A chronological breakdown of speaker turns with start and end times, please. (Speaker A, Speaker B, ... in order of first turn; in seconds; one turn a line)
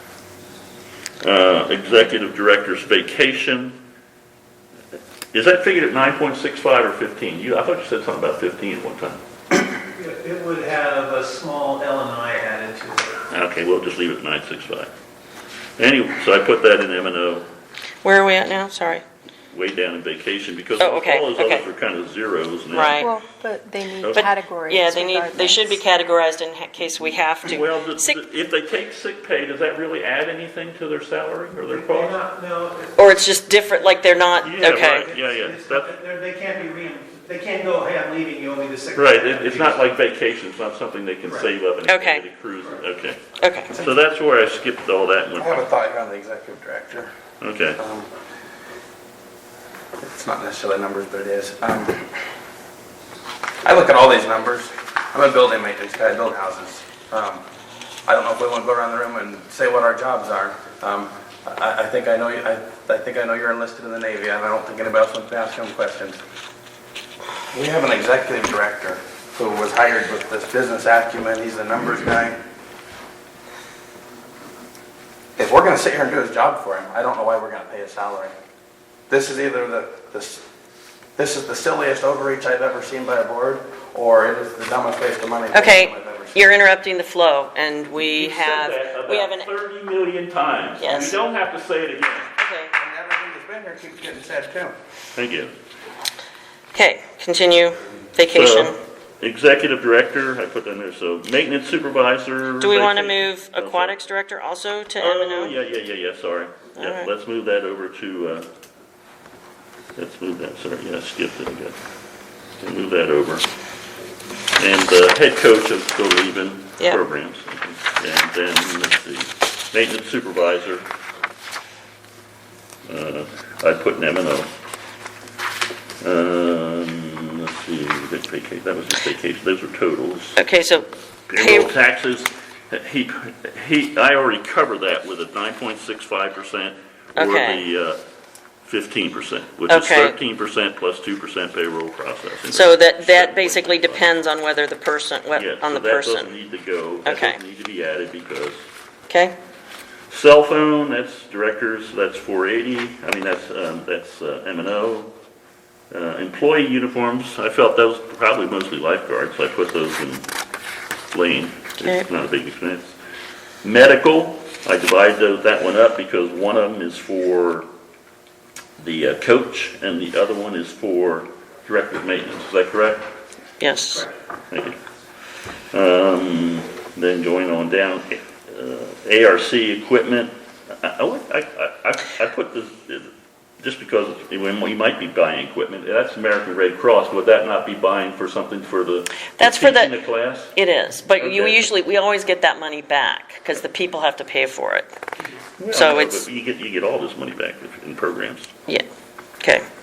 Speaker A: 1.2-3.8
Speaker A: 5.3-9.2
Speaker B: 9.9-13.2
Speaker A: 13.3-14.9
Speaker A: 15.8-17.5
Speaker C: 18.0-19.0
Speaker A: 19.5-23.1
Speaker C: 20.8-21.6
Speaker C: 22.7-23.1
Speaker D: 23.0-25.9
Speaker A: 24.0-24.3
Speaker C: 24.1-28.2
Speaker A: 27.4-32.2
Speaker B: 31.7-33.0
Speaker C: 33.0-35.1
Speaker A: 34.4-36.0
Speaker B: 35.0-39.8
Speaker A: 39.0-45.6
Speaker C: 41.9-42.2
Speaker C: 43.4-43.7
Speaker E: 45.4-47.1
Speaker A: 47.4-47.8
Speaker E: 47.8-48.1
Speaker E: 50.0-52.1
Speaker E: 53.6-57.4
Speaker E: 58.1-66.2
Speaker E: 67.5-72.4
Speaker E: 75.4-78.3
Speaker E: 79.1-80.4
Speaker E: 81.2-86.4
Speaker C: 85.5-89.5
Speaker A: 88.0-92.3
Speaker C: 90.8-91.2
Speaker C: 92.4-92.7
Speaker E: 92.8-94.8
Speaker A: 95.2-95.5
Speaker C: 96.7-98.8
Speaker A: 98.3-104.0
Speaker C: 102.6-105.6
Speaker A: 105.0-108.5
Speaker C: 106.8-107.1
Speaker A: 110.0-111.8
Speaker A: 112.6-113.5
Speaker A: 114.6-120.8
Speaker A: 122.9-124.5
Speaker A: 126.0-130.4
Speaker C: 130.4-131.7
Speaker A: 131.3-138.0
Speaker C: 137.2-137.6
Speaker A: 138.7-144.1
Speaker C: 139.7-140.2
Speaker C: 142.5-146.3
Speaker A: 145.3-148.6
Speaker C: 147.1-147.4
Speaker C: 149.1-149.3
Speaker A: 150.1-155.1
Speaker A: 155.9-160.3
Speaker A: 161.1-162.9
Speaker C: 161.8-162.1
Speaker A: 163.6-167.7
Speaker A: 168.8-173.1
Speaker C: 173.6-174.1
Speaker A: 174.5-174.8
Speaker A: 175.7-190.6
Speaker C: 189.4-190.0
Speaker C: 190.6-194.9
Speaker A: 191.2-191.7
Speaker A: 195.6-198.5
Speaker C: 195.7-196.3